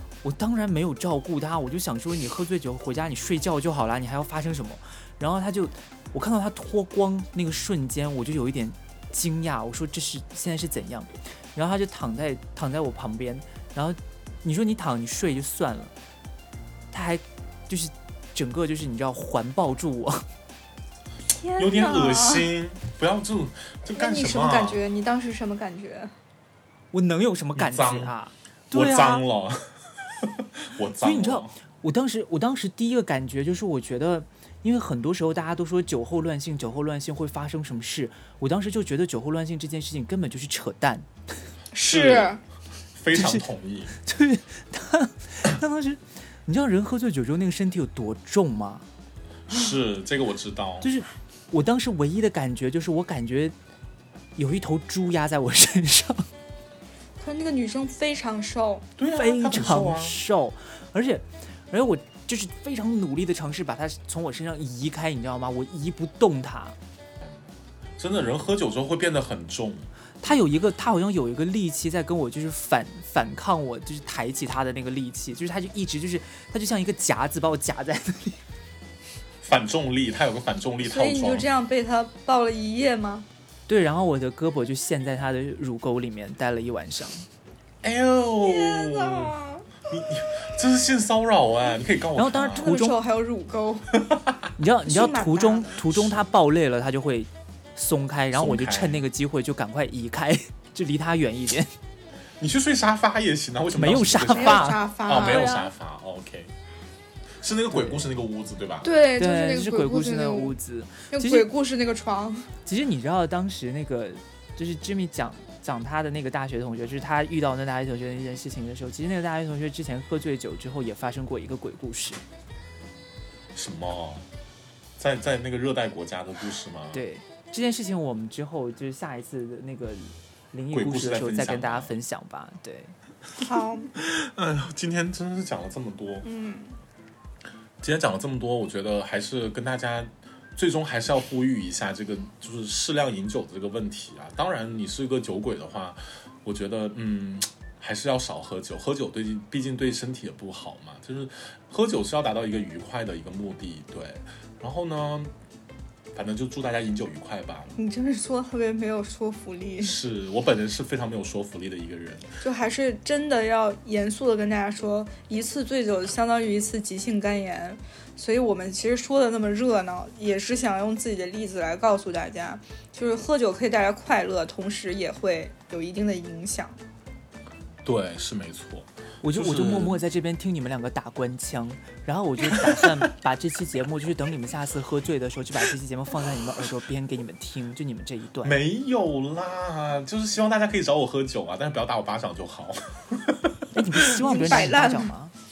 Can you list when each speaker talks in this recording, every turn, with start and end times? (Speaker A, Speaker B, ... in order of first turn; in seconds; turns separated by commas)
Speaker A: 0.2-15.9, Speaker A: 16.9-20.2, Speaker B: 21.3-22.5, Speaker C: 21.6-24.8, Speaker B: 23.9-26.1, Speaker A: 26.9-29.2, Speaker C: 27.5-28.1, Speaker C: 28.7-29.6, Speaker C: 30.2-31.5, Speaker A: 31.0-41.4, Speaker B: 41.7-42.4, Speaker C: 41.8-42.3, Speaker C: 43.0-44.0, Speaker A: 43.1-43.4, Speaker A: 44.0-48.8, Speaker C: 49.5-50.9, Speaker A: 50.8-53.5, Speaker A: 54.4-56.3, Speaker B: 57.2-58.9, Speaker C: 59.0-60.2, Speaker A: 59.1-66.8, Speaker C: 68.0-69.9, Speaker A: 70.2-78.4, Speaker C: 79.4-81.5, Speaker B: 80.8-83.3, Speaker A: 83.7-87.2, Speaker C: 87.8-92.7, Speaker B: 88.4-89.7, Speaker A: 92.2-93.0, Speaker B: 92.6-94.0, Speaker C: 94.1-94.5, Speaker A: 94.6-101.7, Speaker B: 94.8-95.8, Speaker C: 95.9-96.2, Speaker C: 98.3-99.0, Speaker C: 102.4-106.5, Speaker A: 103.7-104.8, Speaker B: 104.3-105.7, Speaker C: 107.4-108.9, Speaker A: 107.7-108.0, Speaker B: 108.8-110.6, Speaker A: 109.2-111.5, Speaker B: 111.1-112.5, Speaker A: 112.6-122.2, Speaker C: 123.5-124.2, Speaker C: 125.0-127.0, Speaker A: 126.9-132.9, Speaker C: 130.7-131.9, Speaker B: 133.4-133.9, Speaker C: 133.9-136.2, Speaker B: 136.2-136.8, Speaker C: 137.8-155.3, Speaker C: 156.1-157.8, Speaker B: 157.8-160.0, Speaker C: 159.8-162.3, Speaker B: 162.4-176.8, Speaker C: 177.8-180.0, Speaker A: 179.2-188.6, Speaker C: 182.5-183.1, Speaker C: 188.4-194.2, Speaker A: 193.7-195.3, Speaker B: 194.1-195.1